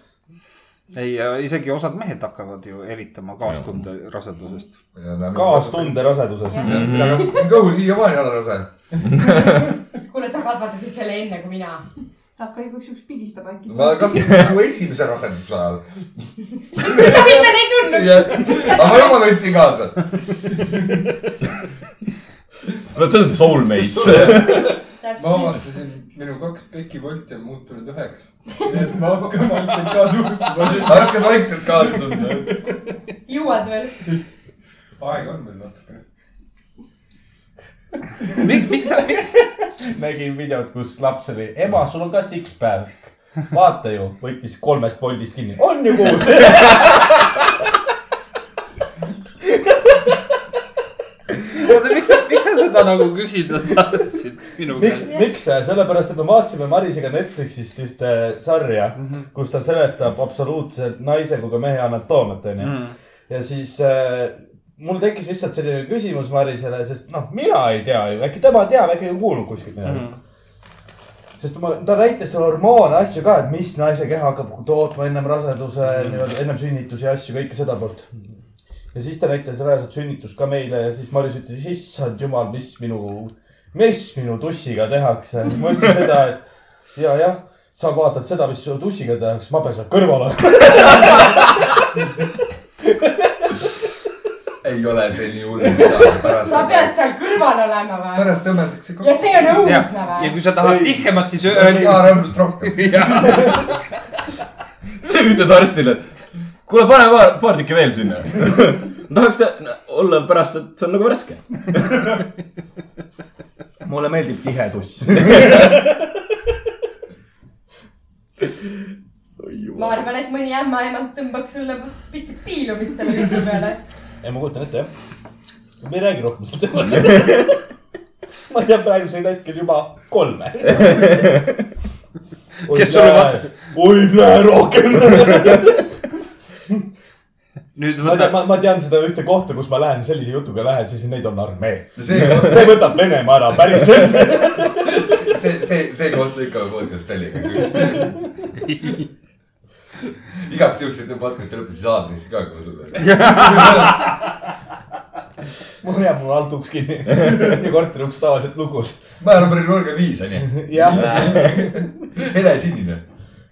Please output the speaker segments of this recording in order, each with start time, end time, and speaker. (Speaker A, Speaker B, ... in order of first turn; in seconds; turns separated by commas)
Speaker A: 0.9-4.8, Speaker B: 3.5-3.8, Speaker C: 5.0-8.7, Speaker D: 5.3-6.8, Speaker E: 6.5-7.0, Speaker B: 6.7-7.2, Speaker B: 9.2-9.6, Speaker E: 9.2-11.8, Speaker F: 12.4-14.7, Speaker C: 13.7-20.1, Speaker E: 16.7-19.4, Speaker G: 20.6-21.0, Speaker B: 22.9-24.7, Speaker C: 24.1-24.4, Speaker G: 24.2-24.6, Speaker E: 25.0-25.6, Speaker G: 25.2-31.4, Speaker C: 30.7-32.5, Speaker E: 33.3-34.0, Speaker G: 35.0-36.0, Speaker A: 38.3-39.4, Speaker D: 39.8-47.2, Speaker A: 51.5-55.1, Speaker D: 54.8-70.1, Speaker A: 62.6-63.0, Speaker A: 69.8-70.2, Speaker D: 71.4-78.4, Speaker A: 75.8-76.3, Speaker D: 78.9-86.4, Speaker D: 87.0-91.6, Speaker C: 94.6-96.9, Speaker E: 96.4-98.4, Speaker C: 98.1-99.7, Speaker E: 99.0-100.4, Speaker A: 99.6-103.8, Speaker C: 101.4-103.5, Speaker B: 105.0-106.1, Speaker B: 106.7-111.9, Speaker D: 113.8-116.1, Speaker B: 119.4-120.0, Speaker E: 119.8-123.8, Speaker D: 124.2-124.9, Speaker D: 125.8-127.6, Speaker D: 128.5-131.4, Speaker D: 132.7-135.9, Speaker A: 132.7-133.5, Speaker A: 137.8-138.4, Speaker D: 138.0-144.9, Speaker C: 142.0-142.8, Speaker C: 144.8-148.1, Speaker A: 148.6-149.1, Speaker C: 150.4-154.0, Speaker A: 153.0-154.1, Speaker D: 155.8-159.1, Speaker C: 159.2-163.0, Speaker D: 160.5-161.6